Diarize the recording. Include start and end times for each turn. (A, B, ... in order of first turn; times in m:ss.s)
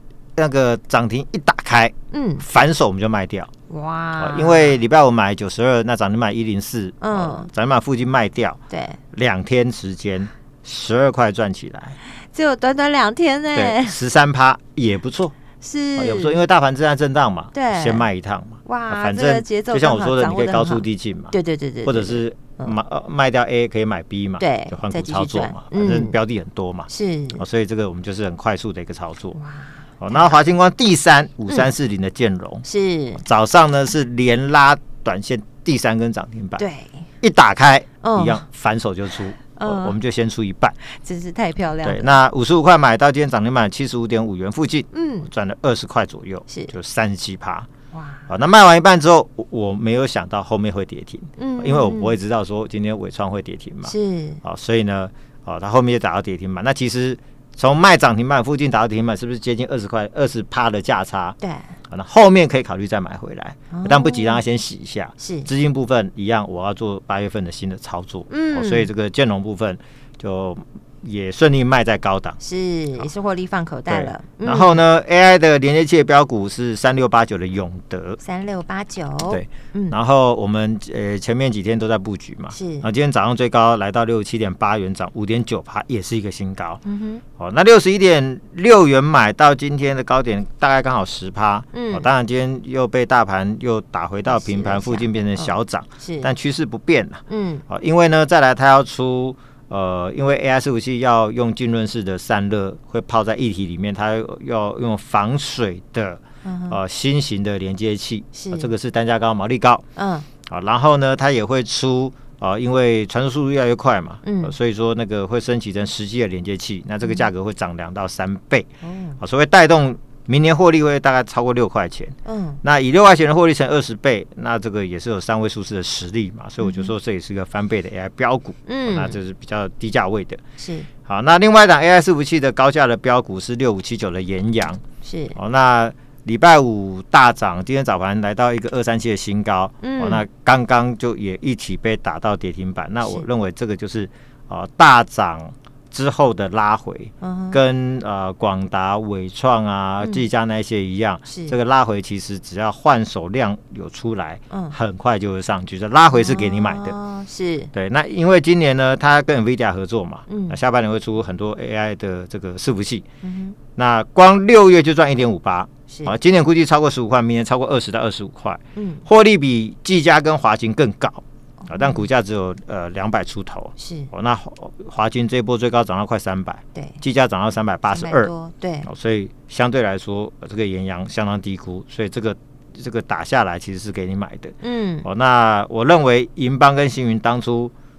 0:00.4-0:03.5 A
0:02.1-0:02.4 B
0:03.7-0:04.8 B
0:04.2-0:08.6 A
0:07.0-0:07.5 B
0:08.7-0:09.0 B
0:09.1-0:12.0 A
0:12.1-0:14.0 B
0:13.5-0:15.3 A
0:15.6-0:16.4 B
0:16.0-0:29.4 A
0:17.5-0:18.1 B
0:18.6-0:22.7 B
0:24.4-0:26.2 B
0:26.9-0:27.4 B
0:29.4-0:30.4 B
0:30.0-0:32.6 A
0:32.6-0:33.2 B
0:33.2-0:36.6 A
0:36.6-0:37.0 B
0:37.2-0:40.8 A
0:38.0-0:38.4 B
0:39.5-0:40.0 B
0:40.8-0:42.2 B
0:41.8-0:47.7 A
0:44.9-0:45.3 B
0:46.5-0:46.7 B
0:47.9-0:48.3 B
0:48.3-1:01.4 A
0:51.4-0:52.2 B
0:53.8-0:54.4 B
1:01.4-1:01.7 B
1:01.9-1:12.4 A
1:03.7-1:04.4 B
1:05.2-1:05.5 B
1:08.3-1:08.9 B
1:12.4-1:14.8 B
1:13.9-1:18.2 A
1:18.2-1:20.0 B
1:19.2-1:26.8 A
1:22.5-1:22.8 B
1:26.8-1:27.2 B
1:27.4-1:49.8 A
1:31.7-1:32.0 B
1:34.3-1:36.3 B
1:37.3-1:37.6 B
1:46.4-1:46.8 B
1:48.3-1:48.7 B
1:50.0-1:50.3 B
1:50.4-2:10.4 A
1:54.2-1:54.5 B
1:58.8-1:59.2 B
2:02.2-2:02.6 B
2:06.6-2:06.9 B
2:08.7-2:09.2 B
2:10.6-2:10.9 B
2:11.0-2:14.8 A
2:15.0-2:15.4 B
2:15.3-2:37.0 A
2:19.8-2:20.2 B
2:27.2-2:27.6 B
2:31.3-2:31.6 B
2:34.5-2:34.8 B
2:36.1-2:37.7 B
2:37.7-2:43.0 A
2:40.3-2:40.6 B
2:43.2-2:43.6 B
2:43.8-2:58.3 A
2:48.7-2:49.0 B
2:51.6-2:52.0 B
2:53.8-2:54.1 B
2:56.7-2:57.0 B
2:57.9-2:58.9 B
2:58.8-3:07.7 A
3:04.6-3:05.0 B